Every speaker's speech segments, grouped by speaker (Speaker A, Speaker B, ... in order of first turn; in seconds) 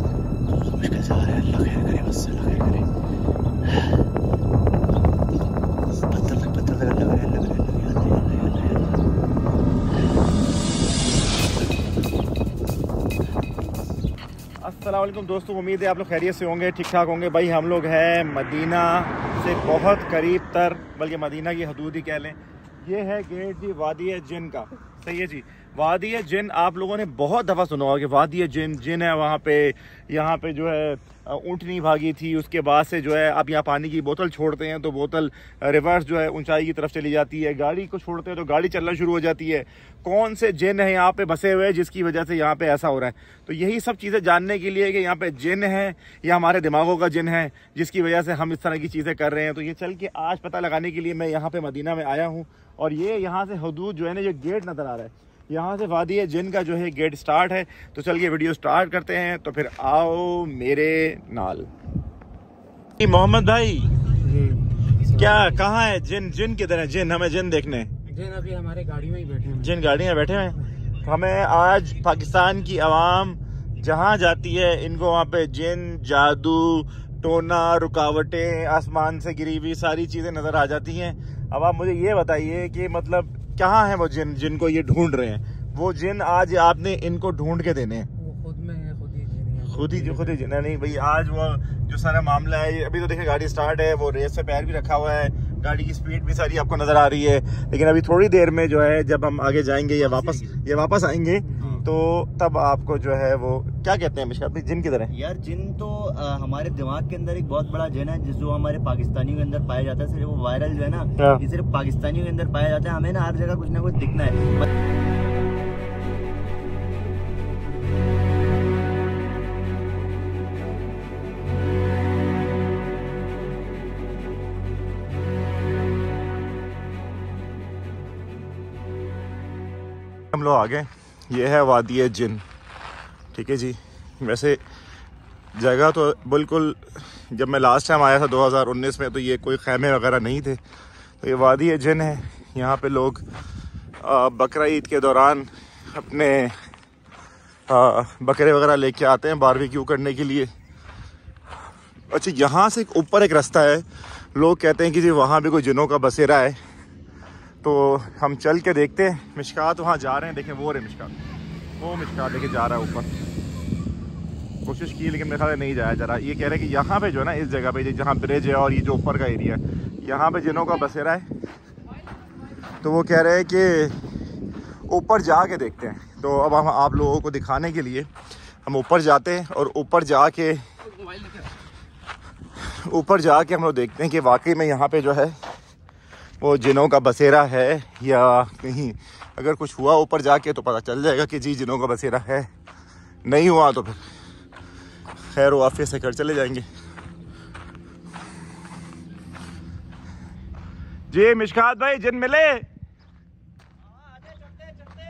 Speaker A: 0.5-2.8, 6.1-8.9, 100.0-100.5, 105.1-114.7
Speaker B: 14.6-61.7, 63.0-63.9, 65.1-67.9, 69.5-88.1, 89.7-105.1, 130.3-132.4, 133.3-134.6, 135.5-140.6, 141.2-143.2, 144.0-146.5, 147.7-150.5, 152.1-153.8, 154.3-156.6, 157.6-161.1, 161.8-163.1, 164.7-171.3, 172.8-174.0, 174.9-178.1, 178.7-180.6, 182.6-185.3, 186.4-192.5, 193.2-194.0, 195.3-196.6, 201.1-202.6
Speaker C: 64.2-65.6, 68.0-69.7, 88.2-90.4, 101.5-101.8